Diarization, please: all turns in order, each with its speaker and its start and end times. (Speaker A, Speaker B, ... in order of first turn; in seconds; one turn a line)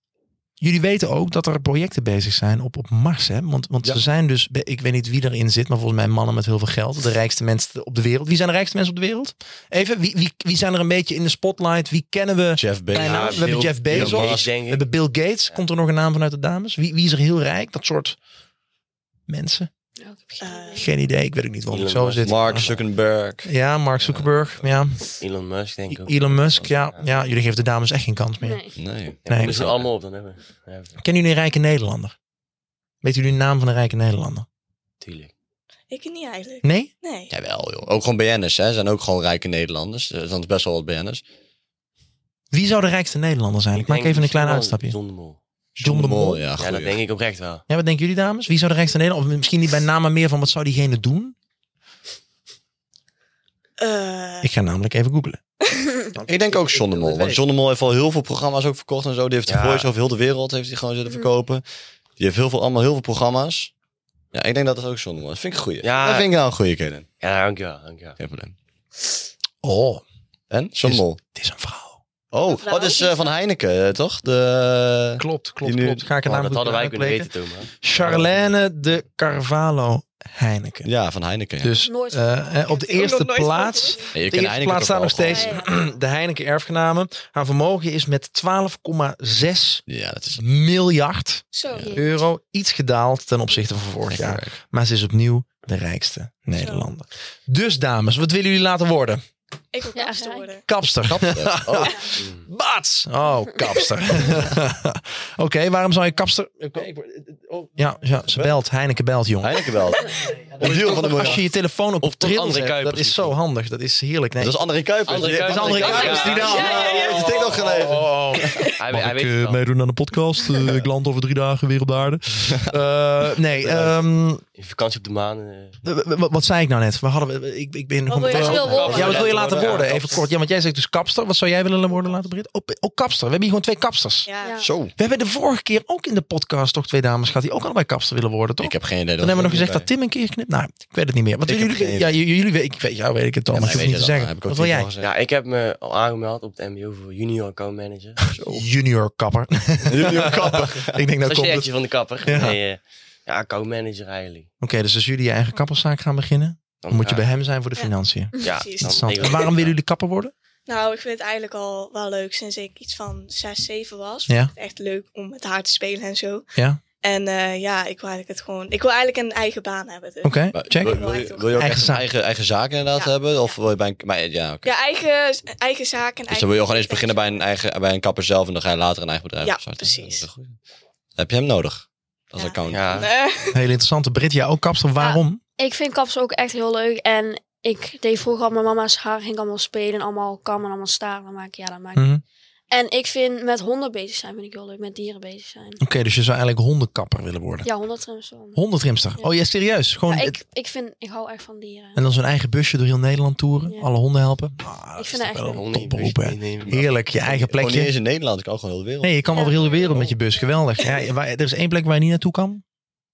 Speaker A: 0.6-18.2
Speaker B: 12.6-14.5
Speaker C: 13.0-14.8
Speaker A: 19.3-19.7
Speaker D: 20.0-20.9
Speaker E: 20.4-20.9
Speaker A: 20.8-22.7
Speaker C: 21.7-22.8
Speaker B: 22.2-23.5
Speaker A: 23.4-25.1
Speaker C: 25.2-27.2
Speaker A: 25.9-28.6
Speaker D: 28.4-28.8
Speaker B: 28.8-29.8
Speaker C: 29.2-31.0
Speaker A: 29.3-29.6
Speaker A: 31.0-32.2
Speaker A: 33.0-34.5
Speaker C: 35.0-35.3
Speaker E: 35.9-37.3
Speaker A: 36.6-36.9
Speaker B: 37.3-41.2
Speaker A: 42.5-45.0
Speaker C: 43.7-45.4
Speaker B: 45.8-47.0
Speaker A: 45.8-46.5
Speaker C: 46.6-47.6
Speaker A: 47.7-51.4
Speaker E: 53.8-54.5
Speaker A: 54.4-55.4
Speaker A: 56.1-57.4
Speaker B: 56.2-61.6
Speaker C: 59.5-59.9
Speaker B: 62.2-63.7
Speaker B: 64.3-67.1
Speaker C: 65.8-66.3
Speaker C: 67.2-68.2
Speaker B: 68.2-68.5
Speaker A: 69.6-70.0
Speaker B: 70.5-71.2
Speaker A: 70.8-72.0
Speaker B: 72.3-76.1
Speaker E: 72.5-73.3
Speaker A: 75.2-77.3
Speaker C: 76.2-78.5
Speaker A: 77.8-80.9
Speaker B: 80.8-81.7
Speaker A: 81.6-89.8
Speaker D: 81.7-82.7
Speaker E: 82.7-84.1
Speaker B: 84.1-85.5
Speaker D: 85.2-85.7
Speaker E: 85.3-85.7
Speaker B: 89.9-90.4
Speaker A: 90.4-99.2
Speaker E: 91.5-92.0
Speaker D: 91.8-92.2
Speaker B: 94.1-94.6
Speaker E: 96.6-96.9
Speaker E: 99.7-100.7
Speaker D: 100.0-100.5
Speaker A: 100.7-109.6
Speaker B: 101.1-102.0
Speaker B: 109.4-111.4
Speaker A: 110.6-114.6
Speaker C: 110.7-111.1
Speaker C: 112.0-113.3
Speaker B: 114.4-118.7
Speaker C: 115.1-116.8
Speaker A: 115.4-124.4
Speaker E: 115.8-117.7
Speaker C: 118.8-119.6
Speaker B: 122.5-122.8
Speaker C: 124.6-125.8
Speaker A: 125.8-134.3
Speaker E: 128.1-129.2
Speaker D: 128.3-129.2
Speaker C: 128.3-130.2
Speaker B: 128.4-130.0
Speaker E: 134.3-134.7
Speaker D: 134.4-134.7
Speaker B: 134.6-134.9
Speaker A: 135.0-144.9
Speaker B: 138.6-139.9
Speaker B: 141.5-142.1
Speaker B: 143.5-145.1
Speaker C: 145.0-148.2
Speaker B: 148.3-148.7
Speaker A: 148.4-151.7
Speaker B: 149.9-151.0
Speaker C: 151.2-154.5
Speaker A: 152.2-152.6
Speaker A: 154.6-160.3
Speaker C: 156.8-157.3
Speaker C: 158.4-159.7
Speaker E: 158.5-159.5
Speaker E: 160.7-166.5
Speaker A: 164.3-164.5
Speaker A: 166.6-166.8
Speaker E: 167.0-171.7
Speaker A: 170.2-171.0
Speaker B: 170.5-174.7
Speaker A: 171.6-172.1
Speaker E: 172.9-173.2
Speaker E: 174.6-177.4
Speaker B: 176.3-180.6
Speaker E: 179.4-180.3
Speaker B: 181.2-183.1
Speaker E: 182.4-183.6
Speaker C: 182.7-183.1
Speaker A: 183.5-185.4
Speaker D: 185.0-192.1
Speaker A: 191.9-192.2
Speaker D: 192.7-195.8
Speaker A: 195.8-197.7
Speaker D: 197.6-198.6
Speaker A: 198.5-200.4
Speaker D: 200.1-202.0
Speaker A: 201.9-207.9
Speaker D: 205.0-205.7
Speaker C: 205.5-206.8
Speaker B: 206.7-210.1
Speaker A: 209.0-212.6
Speaker E: 209.3-209.7